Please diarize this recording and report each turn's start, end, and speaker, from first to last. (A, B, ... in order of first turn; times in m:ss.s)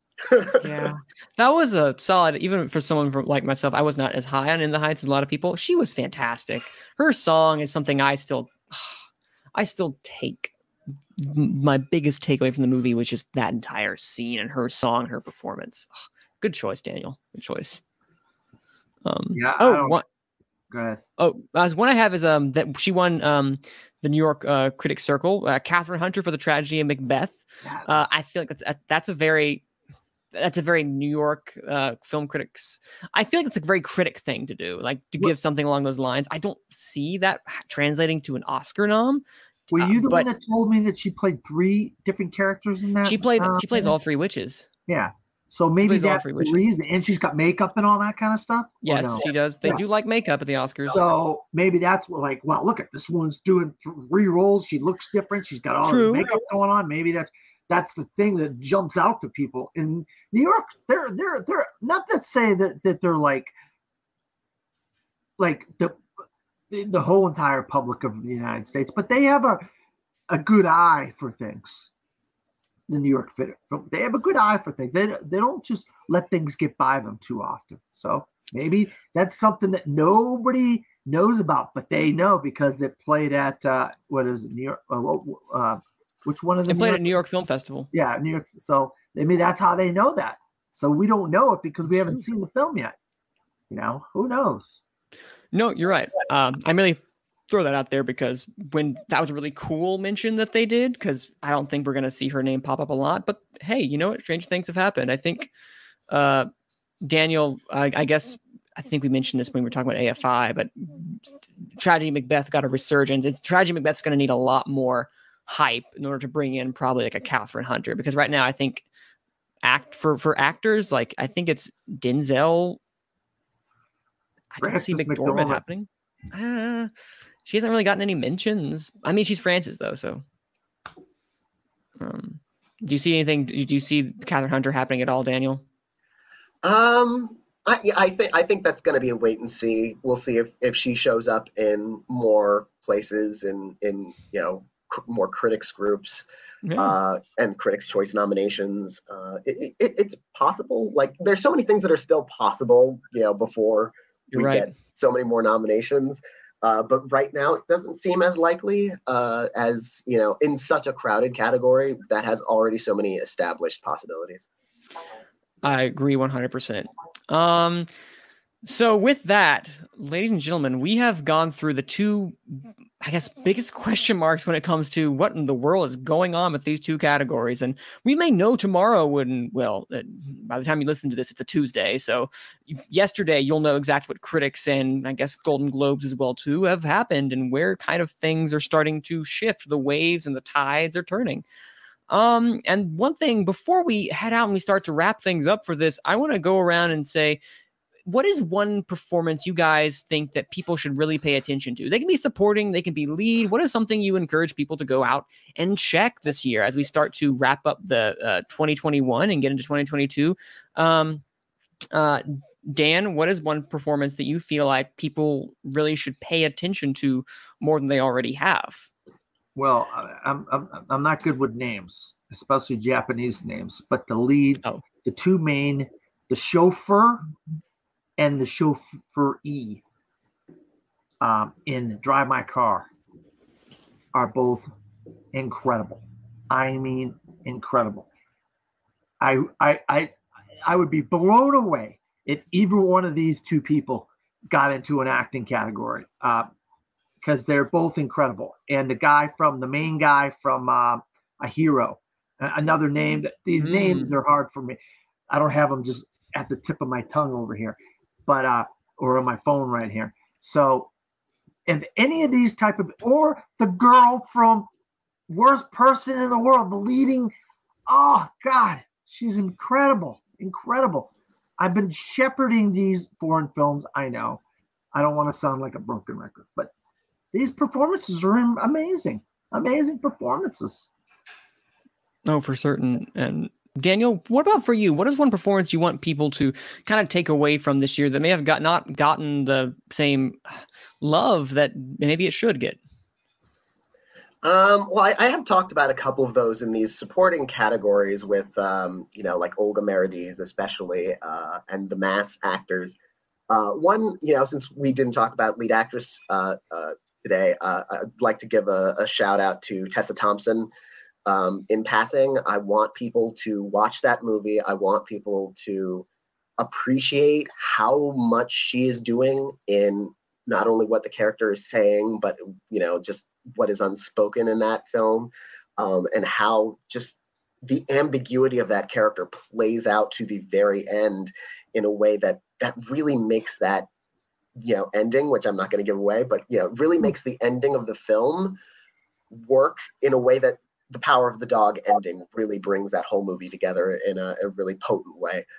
0:00.3-0:00.9 A
0:00.6-0:09.0 B
0:09.6-0:10.5 B
0:11.2-0:15.9 B
0:16.4-0:17.8 B
0:19.0-0:20.0 B
0:19.3-0:20.0 C
0:20.7-0:21.0 C
0:21.2-0:29.6 B
0:27.6-0:28.1 C
0:30.3-0:40.3 B
0:39.7-0:43.9 C
0:43.0-0:44.7 B
0:44.9-0:49.8 C
0:45.8-0:46.6 B
0:48.8-0:51.0 B
0:50.9-1:03.5 C
0:55.8-0:56.4 B
1:05.4-1:06.0 C
1:06.7-1:09.6 C
1:10.3-1:11.9 C
1:12.9-1:27.1 C
1:26.7-1:27.9 B
1:27.9-1:33.0 C
1:31.9-1:32.2 B
1:33.7-1:34.8 C
1:35.5-1:45.5 B
1:46.1-1:46.5 B
1:47.0-1:58.9 B
1:59.6-2:02.8 B
2:04.5-2:06.9 B
2:04.6-2:05.6 C
2:07.4-2:10.2 B
2:12.0-2:15.6 B
2:16.6-2:26.2 A
2:26.6-2:27.0 B
2:26.8-2:44.5 A
2:34.3-2:34.7 B
2:45.6-2:47.9 B
2:48.6-3:11.4 B
3:12.1-3:17.4 B
3:18.1-3:31.2 B
3:31.9-3:38.9 B
3:39.6-3:47.3 C
3:48.2-3:49.8 C
3:51.2-3:52.9 C
3:54.1-3:54.7 C
3:55.3-3:58.1 C
3:59.2-4:06.5 C
4:07.2-4:14.8 C
4:13.6-4:14.1 B
4:15.3-4:20.9 C
4:21.7-4:24.7 C
4:25.3-4:27.3 C
4:27.9-4:34.4 C
4:34.9-4:36.7 C
4:37.3-4:40.9 C
4:42.3-4:52.8 B
4:54.4-5:03.0 A
5:03.5-5:10.7 A
5:11.3-5:16.1 A
5:16.6-5:33.9 A
5:34.6-5:38.6 A
5:39.3-5:45.4 A